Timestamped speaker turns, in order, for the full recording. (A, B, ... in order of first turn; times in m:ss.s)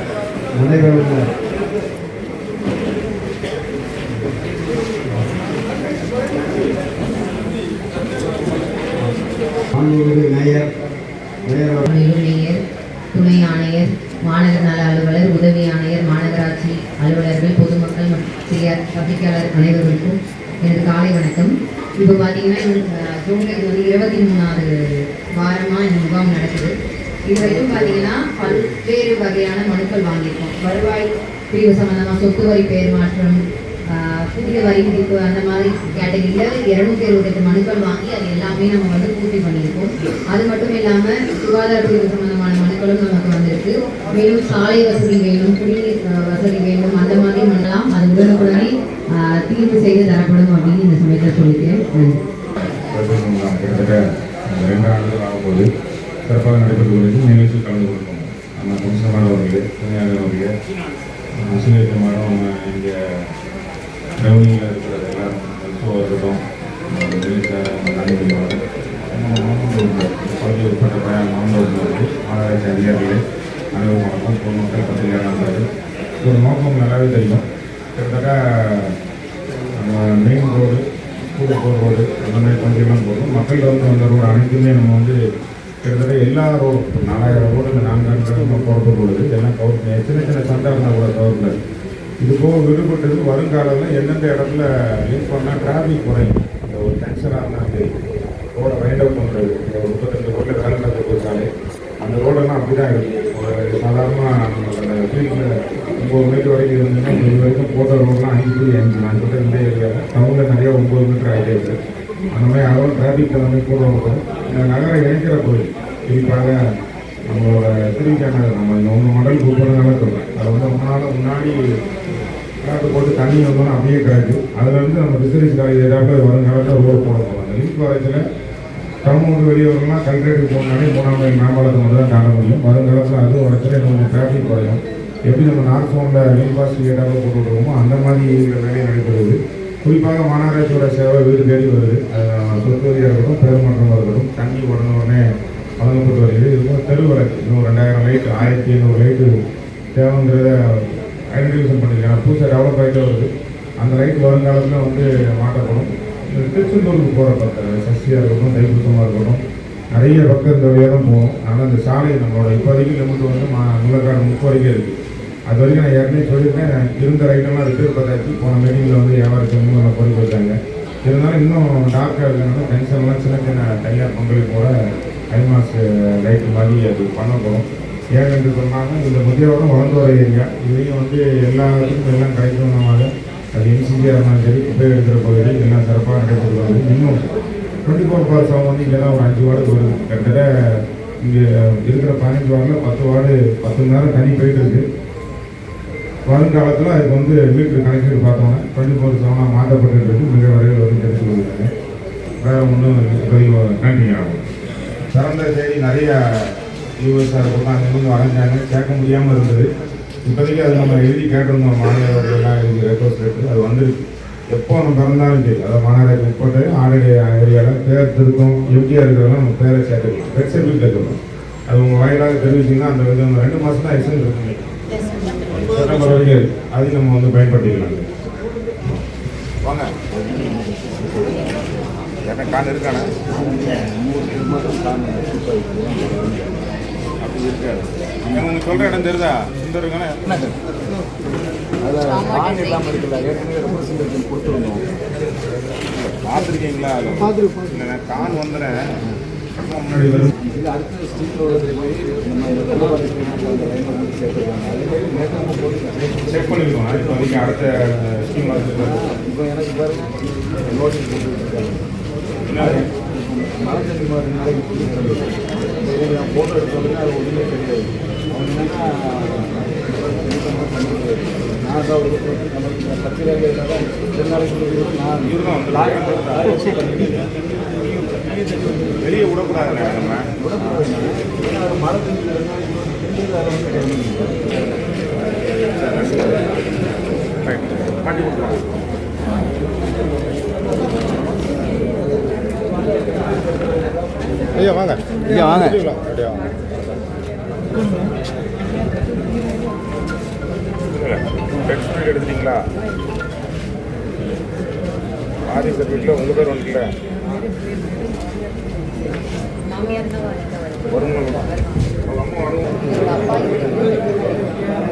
0:00.6-0:01.3 A
0:09.7-0:10.7 A
0:11.5-0:11.9 A
0:11.9-0:12.6 B
0:13.1-0:26.7 B
0:27.3-0:33.4 B
0:33.9-0:52.2 B
0:52.8-0:55.7 C
0:56.2-1:00.5 C
1:01.4-1:03.3 C
1:04.2-1:08.6 C
1:09.1-1:13.2 C
1:13.7-1:15.6 C
1:16.2-1:17.4 C
1:18.0-1:19.0 C
1:19.8-1:25.2 C
1:25.8-1:31.6 C
1:32.2-1:37.9 C
1:38.6-1:41.5 C
1:42.0-1:51.8 C
1:52.3-1:56.6 C
1:57.3-2:01.6 C
2:02.6-2:08.2 C
2:09.0-2:25.2 C
2:25.8-2:29.3 C
2:29.9-2:30.5 C
2:31.3-2:39.4 C
2:39.9-2:45.0 C
2:45.5-2:54.7 C
2:55.3-3:07.2 C
3:07.8-3:10.4 C
3:11.2-3:14.8 C
3:16.3-3:21.7 C
3:22.4-3:24.5 C
3:25.1-3:29.7 C
3:30.2-3:44.7 C
3:45.4-3:48.1 C
3:49.6-3:49.9 C
3:50.1-3:51.5 D
3:52.3-3:53.2 C
3:53.2-3:56.6 D
3:57.2-4:00.4 C
3:58.2-3:59.0 D
4:00.3-4:00.5 D
4:01.8-4:04.8 D
4:02.0-4:02.9 B
4:05.8-4:08.8 C
4:09.6-4:10.3 C
4:10.4-4:17.6 D
4:16.2-4:19.0 C
4:18.8-4:21.9 D
4:22.5-4:22.8 C
4:22.6-4:38.6 D
4:35.2-4:36.8 C
4:38.9-4:40.8 C
4:40.4-4:44.6 D
4:45.2-4:46.5 C
4:47.4-4:48.7 C
4:54.5-4:56.5 C
4:55.2-4:55.8 D
5:00.9-5:02.6 C
5:05.5-5:07.0 C
5:09.8-5:10.4 B
5:10.9-5:11.5 C
5:12.0-5:14.1 C